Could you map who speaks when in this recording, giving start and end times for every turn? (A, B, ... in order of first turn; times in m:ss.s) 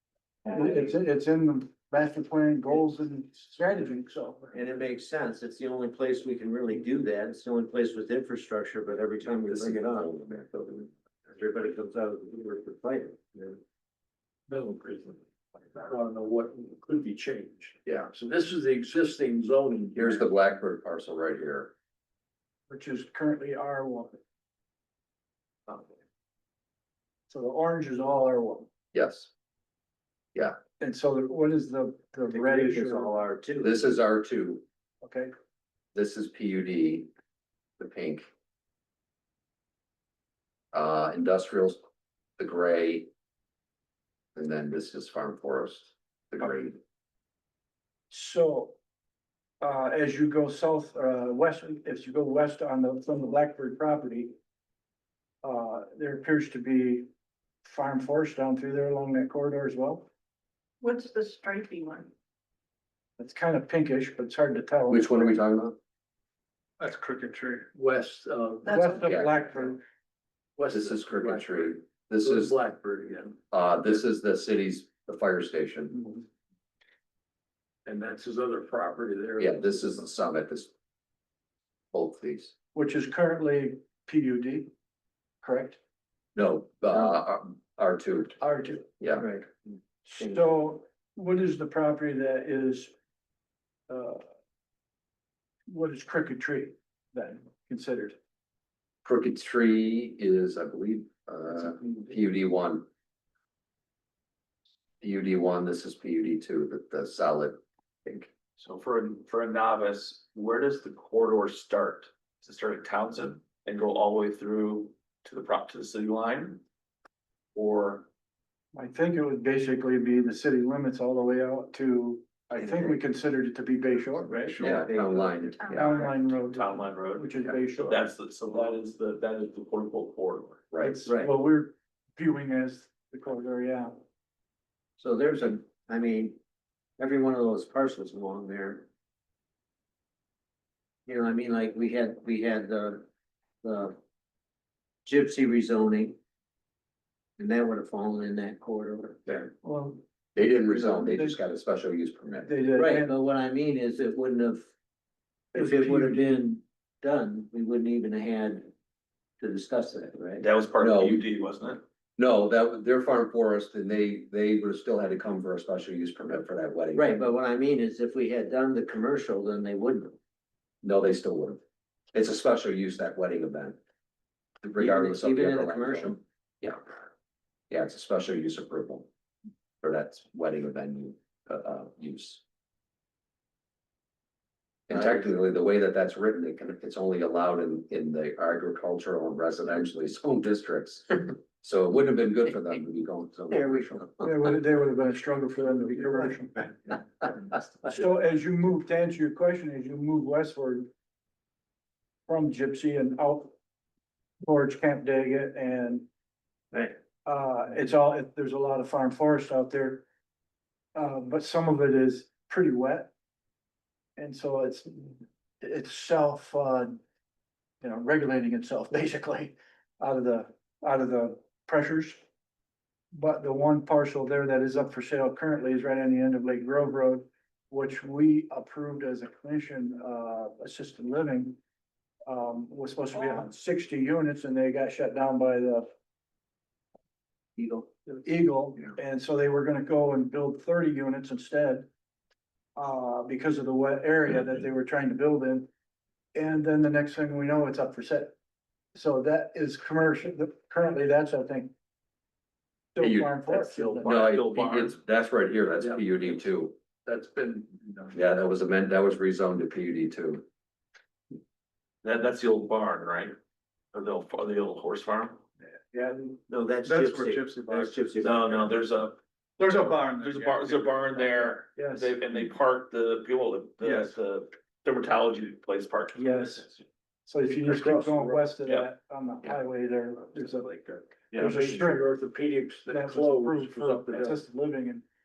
0:00.5-0:04.5 A
0:04.5-0:10.1 B
0:09.5-0:10.9 C
0:11.3-0:13.6 B
0:14.5-0:20.3 D
0:17.9-0:18.1 C
0:19.9-0:21.7 C
0:22.7-0:24.2 A
0:27.3-0:28.7 A
0:28.9-0:29.3 C
0:30.8-0:33.2 A
0:32.3-0:34.0 B
0:33.6-0:34.6 C
0:35.0-0:35.3 A
0:35.9-0:37.1 C
0:37.8-0:38.3 C
0:40.7-0:41.8 C
0:42.4-0:43.1 C
0:44.4-0:46.8 C
0:48.1-0:48.8 A
0:49.6-0:54.4 A
0:55.4-0:57.1 A
0:57.6-1:00.1 A
1:00.8-1:02.1 E
1:03.2-1:05.4 A
1:04.9-1:05.8 C
1:06.8-1:08.9 D
1:08.6-1:09.1 E
1:08.7-1:09.8 A
1:09.0-1:09.4 C
1:10.6-1:13.4 D
1:10.7-1:12.6 C
1:13.5-1:16.1 C
1:17.9-1:20.1 D
1:19.4-1:20.7 C
1:21.9-1:22.5 C
1:22.7-1:24.7 A
1:25.4-1:25.8 A
1:26.4-1:29.3 C
1:28.4-1:28.8 A
1:29.2-1:29.5 B
1:30.1-1:32.9 A
1:33.9-1:34.2 A
1:35.7-1:38.2 A
1:39.0-1:42.9 C
1:45.0-1:48.3 C
1:48.6-1:56.6 F
1:57.6-1:58.1 F
1:58.7-2:04.6 A
2:04.5-2:05.4 B
2:04.6-2:06.1 C
2:05.6-2:05.9 E
2:05.7-2:08.1 A
2:06.0-2:10.6 F
2:10.7-2:11.0 C
2:10.8-2:14.0 A
2:15.0-2:16.4 B
2:17.0-2:18.9 B
2:21.1-2:23.1 B
2:23.6-2:24.0 B
2:25.0-2:26.2 B
2:27.4-2:29.5 B
2:29.6-2:30.0 A
2:30.4-2:32.5 C
2:30.9-2:31.4 A
2:32.4-2:33.2 A
2:32.7-2:34.7 B
2:35.5-2:38.7 B
2:35.6-2:36.2 A
2:39.4-2:40.5 B
2:40.4-2:41.8 F
2:40.8-2:41.2 C
2:42.2-2:47.2 C
2:46.9-2:50.2 B
2:50.8-2:51.6 C
2:52.1-2:53.8 C
2:54.6-2:57.1 C
2:54.8-2:56.2 B
2:57.7-2:59.1 C
2:59.8-3:02.4 C
3:04.9-3:14.1 C
3:04.9-3:05.2 B
3:13.5-3:14.3 B
3:14.2-3:17.3 A
3:17.8-3:20.9 A
3:22.3-3:23.5 A
3:24.4-3:26.1 A
3:27.2-3:30.0 A
3:31.0-3:33.1 A
3:34.2-3:37.0 A
3:37.8-3:42.2 A
3:43.1-3:51.6 A
3:52.3-3:55.9 A
3:57.6-3:57.9 B
3:57.9-4:01.9 A
4:02.8-4:05.7 A
4:06.4-4:08.4 A
4:08.9-4:11.7 A
4:13.0-4:14.1 A
4:13.0-4:16.8 C
4:13.5-4:15.0 F
4:17.1-4:18.1 D
4:18.1-4:20.4 C
4:22.0-4:23.4 F
4:23.9-4:25.4 F
4:26.5-4:28.7 B
4:26.9-4:27.4 A
4:26.9-4:28.0 D
4:28.2-4:29.2 F
4:29.6-4:31.0 A
4:30.2-4:36.8 F
4:31.8-4:32.2 A
4:33.8-4:34.1 A
4:36.2-4:36.7 A
4:37.3-4:42.0 A
4:37.6-4:38.5 D
4:41.3-4:44.4 D
4:42.9-4:45.0 A